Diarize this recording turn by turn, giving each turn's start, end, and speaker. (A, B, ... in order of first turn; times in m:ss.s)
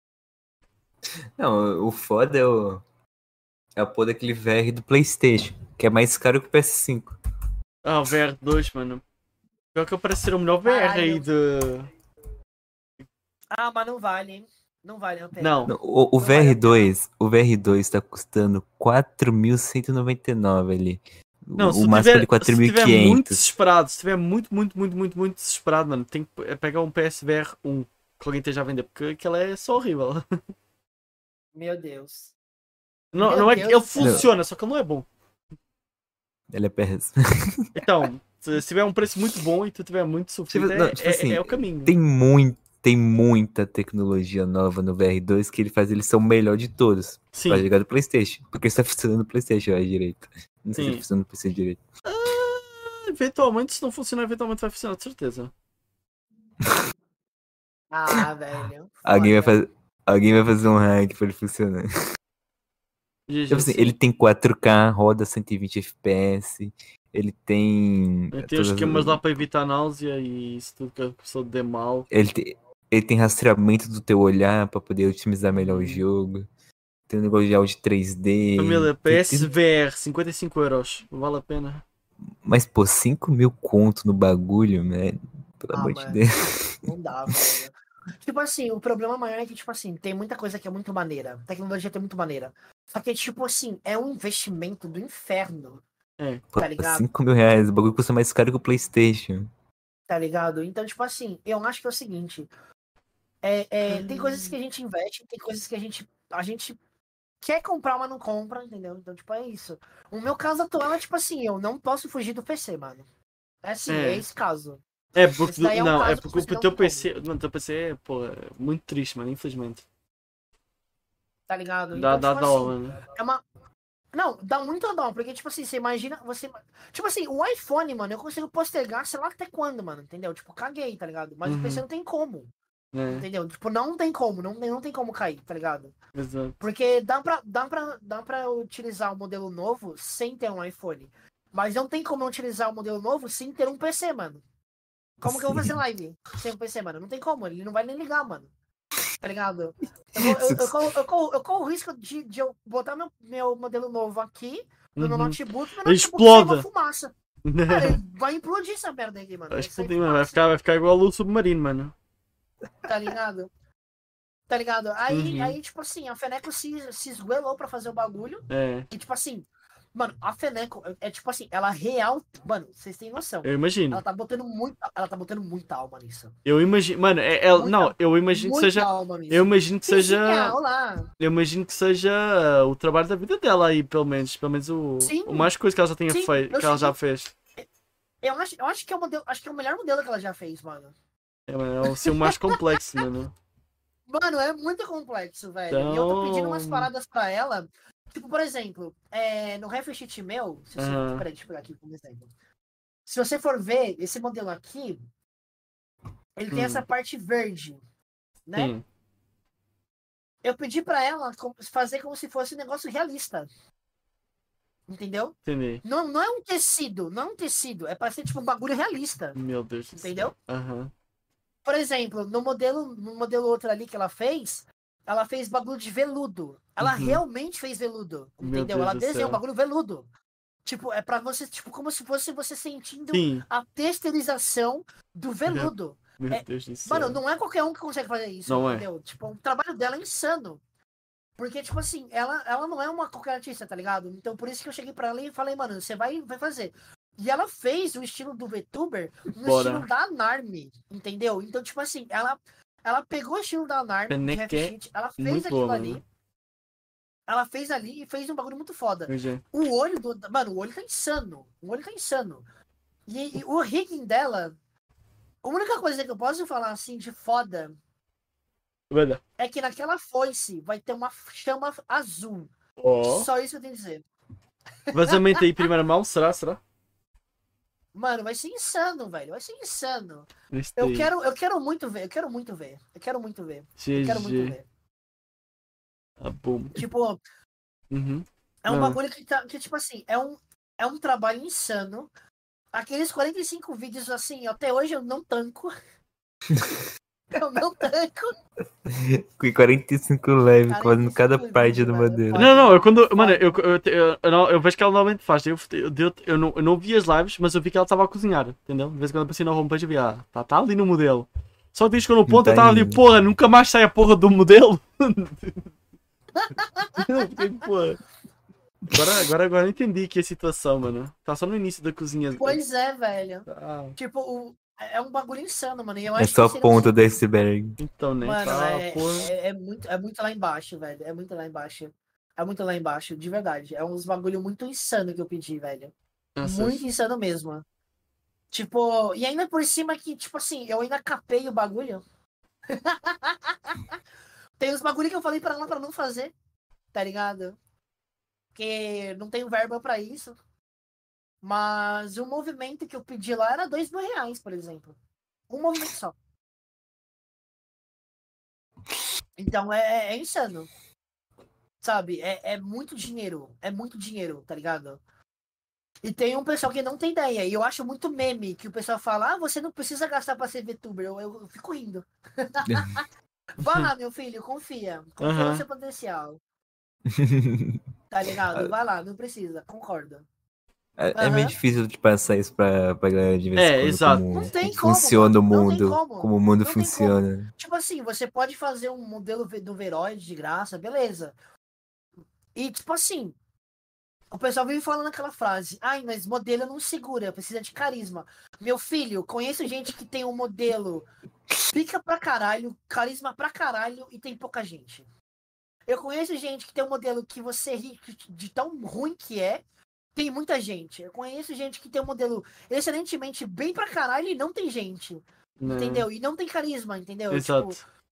0:01.4-0:02.8 A
0:03.8-0:07.2 A
0:07.8-0:09.0 B
0:09.8-0:11.9 B
0:10.6-0:11.3 C
0:13.5-0:16.9 C
0:15.4-0:15.7 B
0:15.7-0:23.4 A
0:21.6-0:30.2 B
0:31.6-0:32.3 C
0:33.1-0:35.1 B
0:33.2-0:34.3 C
0:34.0-0:34.3 A
0:36.5-0:37.7 A
0:37.8-0:42.0 B
0:40.5-0:51.8 A
0:47.3-0:47.7 B
0:50.8-0:51.0 B
0:52.0-0:55.5 B
0:57.9-0:59.6 C
0:59.0-1:01.9 A
1:03.3-1:04.0 B
1:03.5-1:09.3 A
1:08.3-1:12.1 B
1:12.1-1:16.5 A
1:15.5-1:16.0 B
1:17.1-1:19.5 A
1:18.6-1:21.8 B
1:22.4-1:26.8 A
1:25.7-1:35.8 C
1:36.6-1:39.5 A
1:36.6-1:37.0 C
1:40.1-1:42.5 C
1:43.4-1:46.8 C
1:43.8-1:44.6 B
1:47.4-1:53.0 C
1:53.6-1:54.8 C
1:53.9-1:54.2 B
1:55.2-1:59.8 B
1:55.4-1:57.1 C
2:01.5-2:03.4 C
2:01.9-2:03.0 B
2:04.1-2:12.5 C
2:11.4-2:11.8 B
2:12.9-2:13.3 B
2:13.1-2:15.9 C
2:16.2-2:16.6 B
2:16.6-2:24.4 C
2:25.2-2:28.5 C
2:25.3-2:25.8 A
2:29.2-2:37.1 C
2:30.2-2:30.9 A
2:35.0-2:36.6 B
2:37.4-2:38.0 B
2:37.7-2:40.4 C
2:39.5-2:41.9 B
2:42.8-2:43.5 C
2:44.5-2:56.3 C
2:45.1-2:45.6 B
2:48.5-2:48.9 B
2:53.4-2:54.0 B
2:56.5-3:00.6 B
2:57.5-3:01.1 C
3:01.2-3:07.3 B
3:05.0-3:05.5 C
3:06.1-3:07.0 C
3:08.2-3:10.9 C
3:11.5-3:13.3 B
3:11.9-3:13.0 C
3:14.1-3:22.3 C
3:15.7-3:16.9 B
3:20.8-3:21.2 B
3:23.1-3:25.0 C
3:26.4-3:27.8 C
3:26.5-3:26.8 B
3:28.5-3:28.7 C
3:28.6-3:28.8 B
3:30.4-3:33.5 C
3:34.9-3:39.4 C
3:35.5-3:35.8 B
3:39.4-3:40.9 B
3:40.0-3:40.3 C
3:41.6-3:50.1 C
3:46.8-3:47.2 B
3:48.4-3:49.4 B
3:50.6-4:00.6 C
3:53.1-3:53.4 B
3:55.5-3:57.2 B
3:58.5-3:58.9 B
4:01.4-4:16.0 C
4:09.4-4:09.8 B
4:14.1-4:16.0 B
4:17.3-4:22.4 C
4:19.1-4:19.4 B
4:23.1-4:24.6 C
4:25.4-4:27.8 C
4:28.9-4:29.2 B
4:29.4-4:32.5 C
4:32.8-4:33.3 B
4:33.0-4:34.0 C
4:34.9-4:35.4 C
4:34.9-4:36.6 B
4:37.9-4:44.6 C
4:40.5-4:41.1 B
4:43.8-4:44.6 B
4:46.2-4:46.8 B
4:46.8-4:47.2 C
4:47.9-4:49.0 B
4:48.6-4:52.1 C
4:52.7-4:55.7 C
4:56.5-4:56.8 A
4:57.3-4:58.4 C
4:58.9-5:02.5 A
5:00.7-5:03.6 C
5:02.4-5:15.7 B
5:12.3-5:13.0 A
5:16.4-5:17.0 C
5:17.0-5:18.0 B
5:18.9-5:22.6 B
5:22.4-5:26.9 C
5:23.5-5:24.0 B
5:26.2-5:27.8 A
5:27.8-5:29.3 B
5:28.2-5:37.6 C
5:36.4-5:36.8 B
5:38.5-5:42.0 C
5:42.7-5:44.0 C
5:44.6-5:46.3 C
5:46.9-5:47.6 C
5:48.6-5:50.4 C
5:51.4-5:55.0 C
5:55.5-5:56.2 C
5:59.4-6:00.7 C
6:01.8-6:05.0 C
6:06.0-6:13.1 C
6:12.7-6:13.0 A
6:13.6-6:16.4 C
6:13.6-6:13.9 B
6:15.2-6:15.6 B
6:17.1-6:17.8 A
6:18.1-6:20.2 C
6:21.0-6:27.5 A
6:21.2-6:21.5 C
6:23.6-6:24.4 B
6:24.3-6:31.4 C
6:32.6-6:33.4 C
6:34.3-6:41.1 C
6:41.7-6:45.1 C
6:45.9-6:49.6 C
6:50.2-6:57.8 C
6:55.6-6:56.1 B
6:57.3-6:57.8 B